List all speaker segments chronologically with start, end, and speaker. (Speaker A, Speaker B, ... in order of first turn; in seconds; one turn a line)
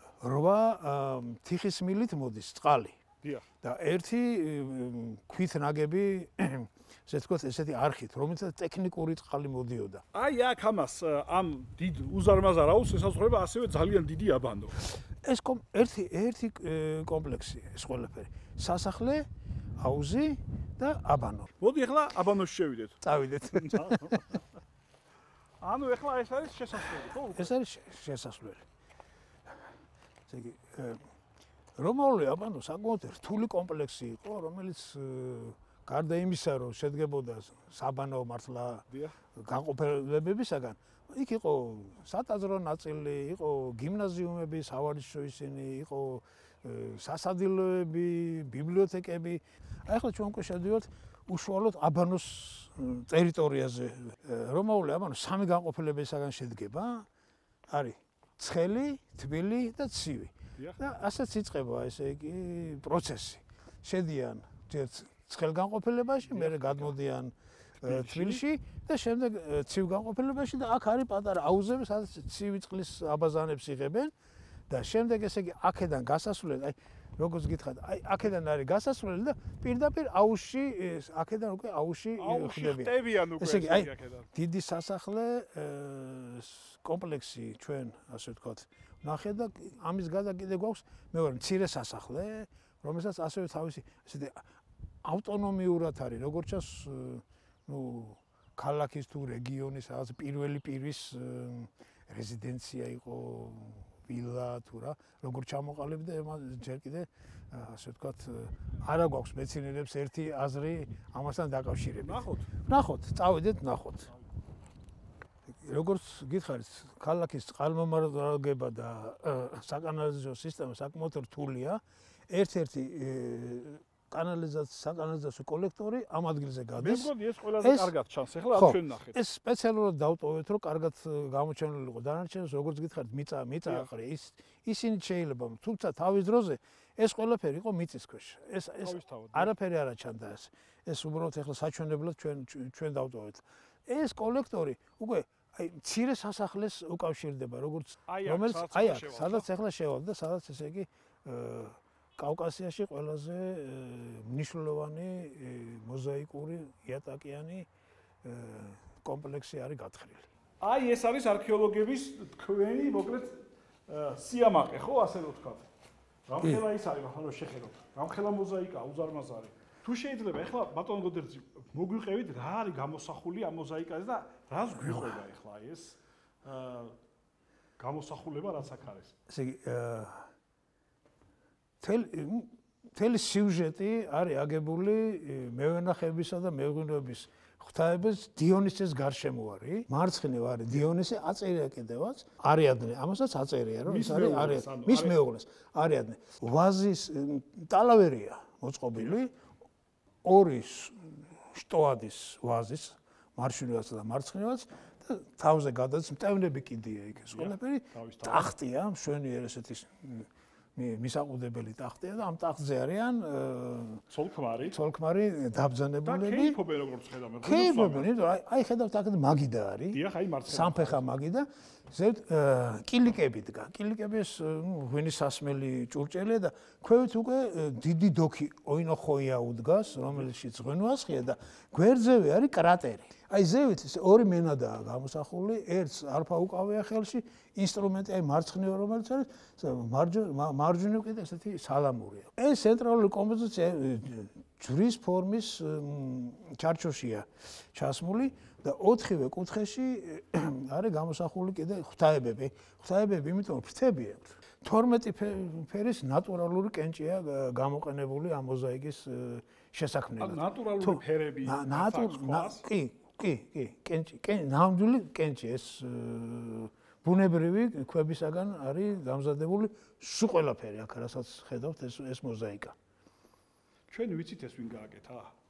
Speaker A: 0.2-3.0
Speaker A: 3.6-10.0
Speaker B: 10.1-14.8
Speaker A: 15.2-19.3
Speaker A: 19.8-21.5
Speaker B: 21.6-24.4
Speaker A: 23.0-24.2
Speaker B: 25.6-27.5
Speaker A: 27.3-28.6
Speaker A: 30.3-31.0
Speaker A: 31.8-38.9
Speaker B: 38.9-39.2
Speaker A: 39.4-57.1
Speaker A: 57.7-74.1
Speaker B: 66.2-67.0
Speaker B: 67.8-68.4
Speaker A: 74.7-94.4
Speaker B: 82.2-84.3
Speaker A: 95.0-114.1
Speaker B: 112.0-112.5
Speaker A: 115.5-127.9
Speaker B: 126.8-129.2
Speaker A: 128.5-157.7
Speaker B: 138.8-139.5
Speaker B: 148.1-149.4
Speaker A: 158.2-160.3
Speaker B: 160.6-165.7
Speaker B: 166.3-176.9
Speaker A: 174.7-175.2
Speaker B: 177.8-179.1
Speaker A: 179.3-180.3
Speaker A: 181.8-199.3
Speaker B: 193.8-195.2
Speaker A: 200.2-214.0
Speaker B: 207.3-208.5
Speaker B: 214.1-214.8
Speaker A: 214.7-216.6
Speaker B: 216.1-218.1
Speaker A: 217.4-272.8
Speaker B: 219.9-221.1
Speaker B: 260.2-262.6
Speaker B: 273.9-275.3